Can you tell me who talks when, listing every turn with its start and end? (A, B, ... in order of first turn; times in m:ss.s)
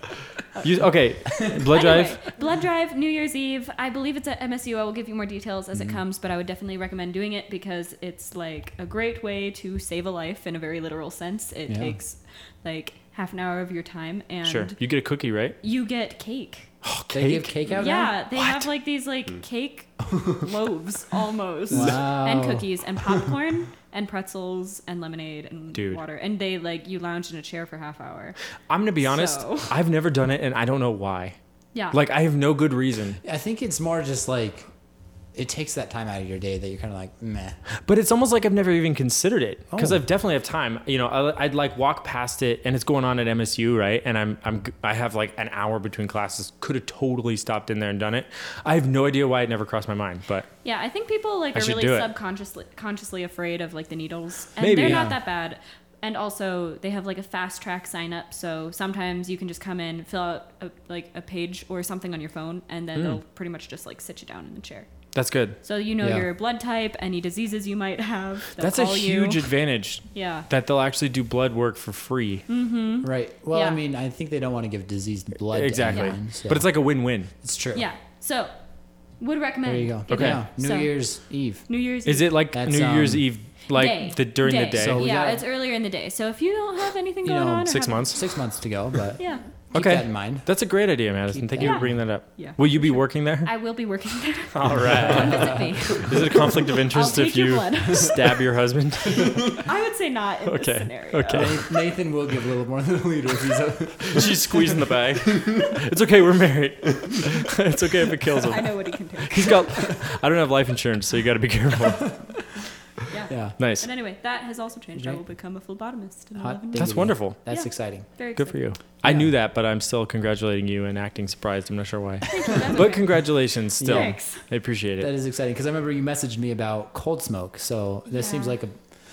0:00.6-0:02.2 A
0:01.4-0:14.8 B
0:11.7-0:12.0 C
0:14.4-0:15.6 A
0:15.6-0:16.7 B
0:16.8-0:17.7 A
0:17.1-0:18.2 C
0:17.7-0:28.4 B
0:18.3-0:18.7 A
0:21.7-0:23.3 C
0:25.7-0:26.0 A
0:28.7-0:31.4 A
0:29.0-0:29.7 B
0:31.9-0:33.2 A
0:33.2-0:34.7 C
0:35.3-0:37.6 C
0:37.8-0:50.5 A
0:39.7-0:40.0 C
0:50.6-1:04.9 B
0:51.5-0:52.1 A
0:54.6-0:55.1 A
0:54.8-0:55.2 C
1:05.1-1:05.6 A
1:05.6-1:09.5 B
1:06.0-1:06.3 C
1:08.6-1:12.5 A
1:10.1-1:10.5 B
1:12.5-1:13.8 B
1:13.0-1:16.7 C
1:15.5-1:17.3 A
1:17.4-1:17.8 C
1:17.8-1:18.5 B
1:19.2-1:20.9 B
1:19.7-1:21.7 C
1:20.1-1:20.4 A
1:21.7-1:22.4 B
1:22.1-1:25.1 A
1:22.5-1:23.3 C
1:23.7-1:28.2 B
1:24.8-1:25.4 C
1:27.2-1:30.5 C
1:27.7-1:28.2 A
1:29.2-1:29.4 B
1:29.7-1:33.5 A
1:31.3-1:32.0 C
1:31.6-1:38.4 B
1:34.5-1:39.6 A
1:34.7-1:36.1 C
1:39.4-1:41.6 B
1:40.5-1:41.6 A
1:41.3-1:44.8 C
1:44.0-1:52.3 A
1:48.4-1:49.9 B
1:53.1-1:58.6 B
1:53.3-1:53.6 C
1:53.6-1:53.9 A
1:56.4-1:58.1 C
1:56.8-1:57.4 A
1:58.4-2:05.1 A
1:59.0-1:59.3 C
2:02.3-2:04.4 B
2:03.8-2:04.2 C
2:05.0-2:08.8 C
2:08.1-2:08.6 B